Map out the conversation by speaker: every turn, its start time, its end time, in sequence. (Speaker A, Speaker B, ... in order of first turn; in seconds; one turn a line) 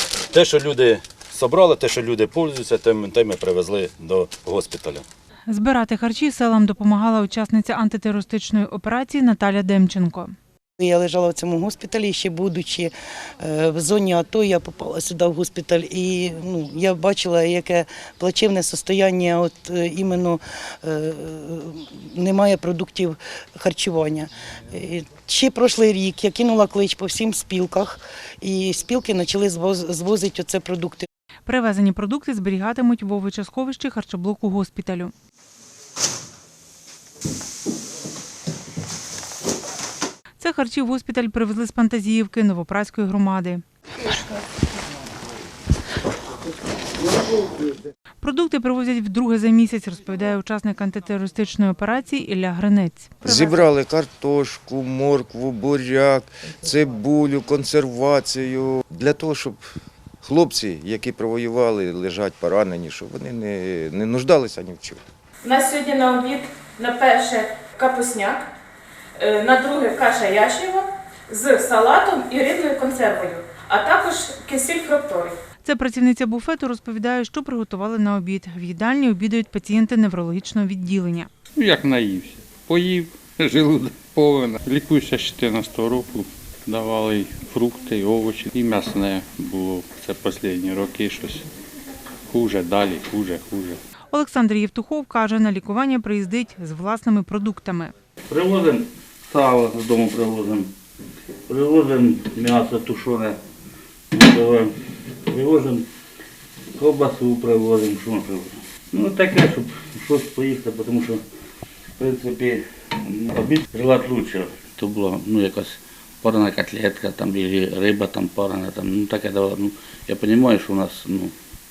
Speaker A: 0.3-5.0
Speaker B: 5.5-10.3
Speaker C: 10.9-12.9
Speaker C: 13.5-24.3
Speaker C: 24.8-27.9
Speaker C: 28.5-31.0
Speaker B: 31.5-35.1
Speaker B: 40.4-43.6
Speaker B: 48.2-53.6
Speaker D: 53.2-59.6
Speaker D: 60.2-65.0
Speaker E: 65.4-68.5
Speaker E: 69.2-75.4
Speaker B: 75.6-81.3
Speaker F: 81.6-91.5
Speaker F: 92.3-93.8
Speaker B: 94.1-97.9
Speaker G: 98.3-100.7
Speaker G: 101.5-103.4
Speaker G: 104.1-104.7
Speaker G: 105.3-105.9
Speaker G: 106.8-111.2
Speaker G: 112.0-121.3